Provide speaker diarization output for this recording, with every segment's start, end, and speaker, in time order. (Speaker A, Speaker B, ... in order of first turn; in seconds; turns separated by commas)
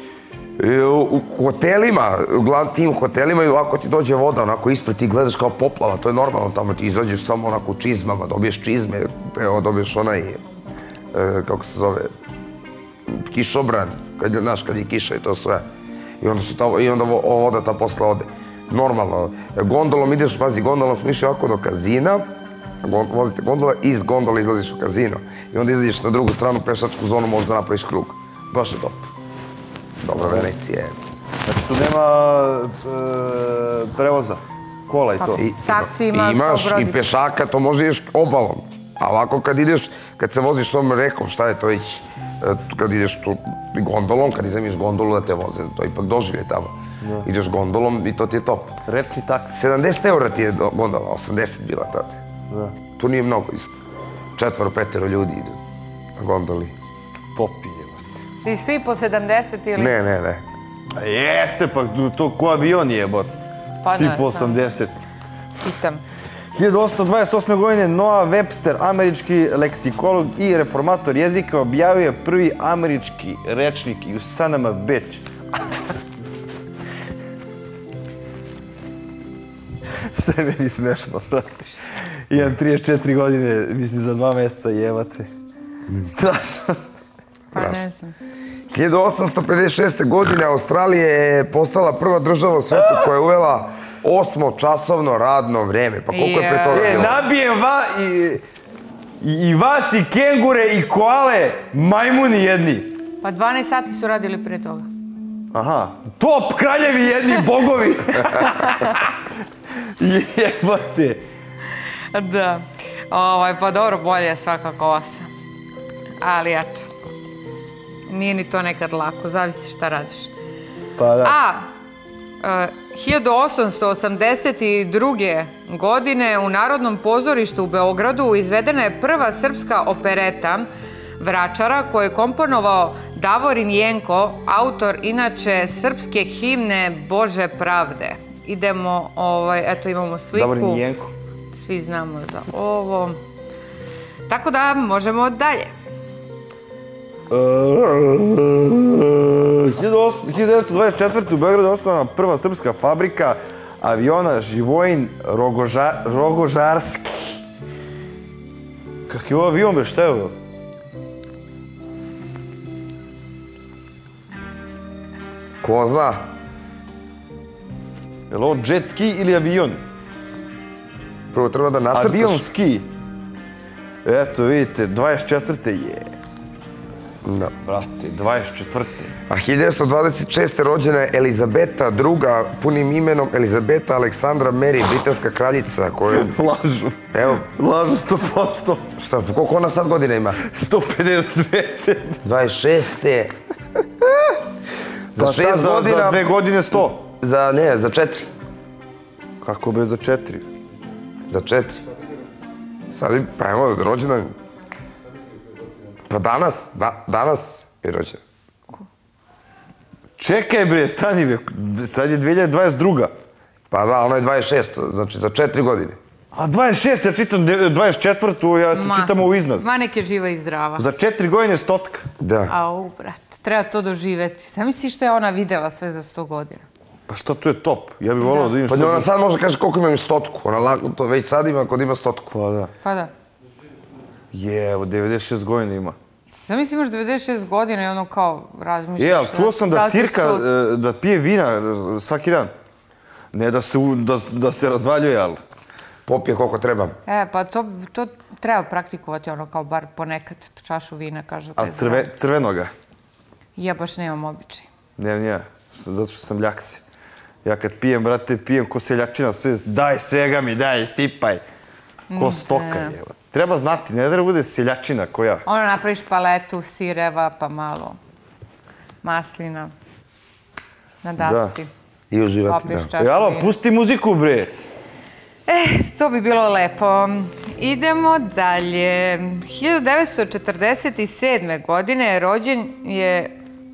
Speaker A: 0.6-10.4, Speaker A: 11.1-12.1, Speaker A: 13.1-15.6, Speaker A: 16.2-22.2, Speaker A: 22.8-29.1, Speaker A: 30.0-30.9, Speaker B: 30.1-30.5, Speaker B: 31.4-35.4, Speaker C: 35.2-37.0, Speaker A: 35.4-48.8, Speaker B: 47.0-47.3, Speaker B: 48.9-49.6, Speaker A: 49.5-52.2, Speaker B: 52.5-52.8, Speaker A: 53.0-53.7, Speaker A: 54.4-55.6, Speaker A: 56.2-56.7, Speaker B: 57.3-58.2, Speaker C: 58.4-59.9, Speaker A: 59.8-60.4, Speaker B: 60.9-63.3, Speaker C: 63.8-64.6, Speaker B: 63.9-65.0, Speaker C: 65.6-66.0, Speaker B: 66.5-75.3, Speaker B: 80.1-85.3, Speaker B: 86.0-86.8, Speaker C: 87.5-88.1, Speaker A: 88.7-97.2, Speaker C: 96.1-97.1, Speaker B: 96.7-98.4, Speaker B: 99.2-102.9, Speaker C: 103.2-104.9, Speaker B: 105.5-109.2, Speaker B: 110.0-111.2, Speaker C: 112.1-115.3, Speaker C: 116.2-116.9, Speaker C: 118.1-120.3, Speaker B: 121.0-121.4, Speaker C: 121.2-121.7, Speaker C: 122.4-130.7, Speaker C: 131.2-140.8, Speaker B: 140.3-141.1, Speaker C: 141.5-143.2, Speaker C: 144.3-145.7, Speaker B: 147.3-157.3, Speaker B: 159.1-160.3, Speaker A: 165.6-166.2, Speaker B: 168.3-169.8, Speaker A: 171.3-172.4, Speaker B: 171.9-172.8, Speaker B: 174.0-176.1, Speaker A: 177.2-177.5, Speaker B: 177.7-179.1, Speaker A: 179.3-186.3, Speaker B: 186.1-188.9, Speaker A: 187.1-187.4, Speaker A: 189.0-190.4, Speaker B: 190.3-192.2, Speaker A: 192.2-193.3, Speaker A: 195.1-198.2, Speaker B: 195.2-197.0, Speaker B: 199.4-200.4, Speaker A: 201.3-201.8, Speaker A: 202.9-204.3, Speaker A: 206.1-208.2, Speaker B: 210.2-213.1, Speaker A: 213.7-216.0, Speaker B: 216.3-219.6, Speaker C: 218.7-220.9, Speaker B: 220.8-222.1, Speaker A: 222.2-222.5, Speaker C: 222.5-226.7, Speaker B: 227.1-229.1, Speaker C: 228.2-228.5, Speaker A: 228.7-232.3, Speaker B: 232.3-232.7, Speaker C: 232.8-233.1, Speaker B: 234.3-235.9, Speaker C: 236.4-240.4, Speaker B: 239.0-242.5, Speaker B: 243.3-245.4, Speaker A: 246.1-246.9, Speaker C: 247.1-252.1, Speaker B: 251.6-252.7, Speaker C: 253.6-254.7, Speaker B: 255.0-256.8, Speaker B: 257.4-261.4, Speaker C: 262.1-263.0, Speaker B: 262.1-265.4, Speaker C: 265.4-268.0, Speaker C: 269.0-269.7, Speaker C: 271.0-271.7, Speaker B: 271.2-271.6, Speaker A: 272.1-272.9, Speaker C: 272.4-273.6, Speaker B: 273.0-274.5, Speaker C: 275.4-283.3